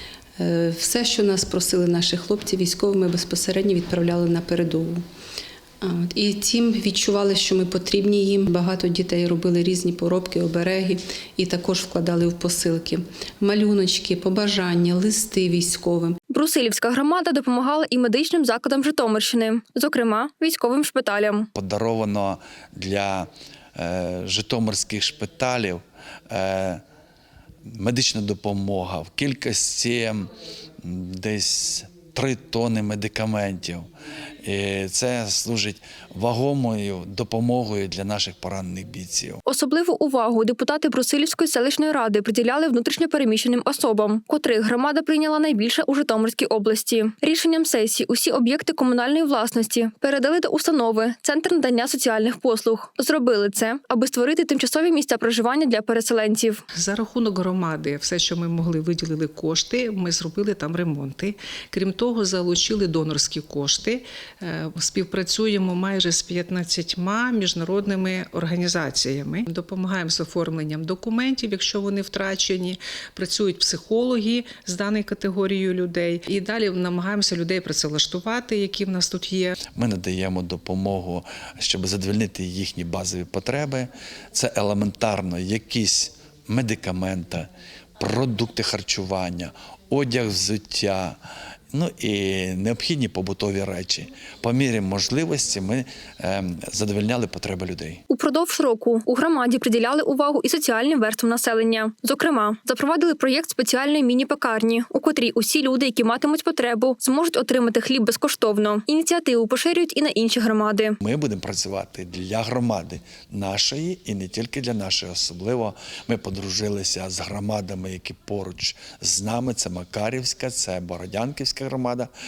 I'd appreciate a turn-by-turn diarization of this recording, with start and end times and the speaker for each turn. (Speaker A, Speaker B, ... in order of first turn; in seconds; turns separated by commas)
Speaker A: 0.4-5.0, Speaker A: 5.8-16.2, Speaker B: 16.3-21.5, Speaker C: 21.6-26.8, Speaker C: 27.7-33.9, Speaker C: 34.4-39.4, Speaker B: 39.5-56.6, Speaker D: 56.8-79.5, Speaker C: 79.6-91.2, Speaker C: 91.7-98.0, Speaker B: 98.1-111.0, Speaker C: 111.0-122.1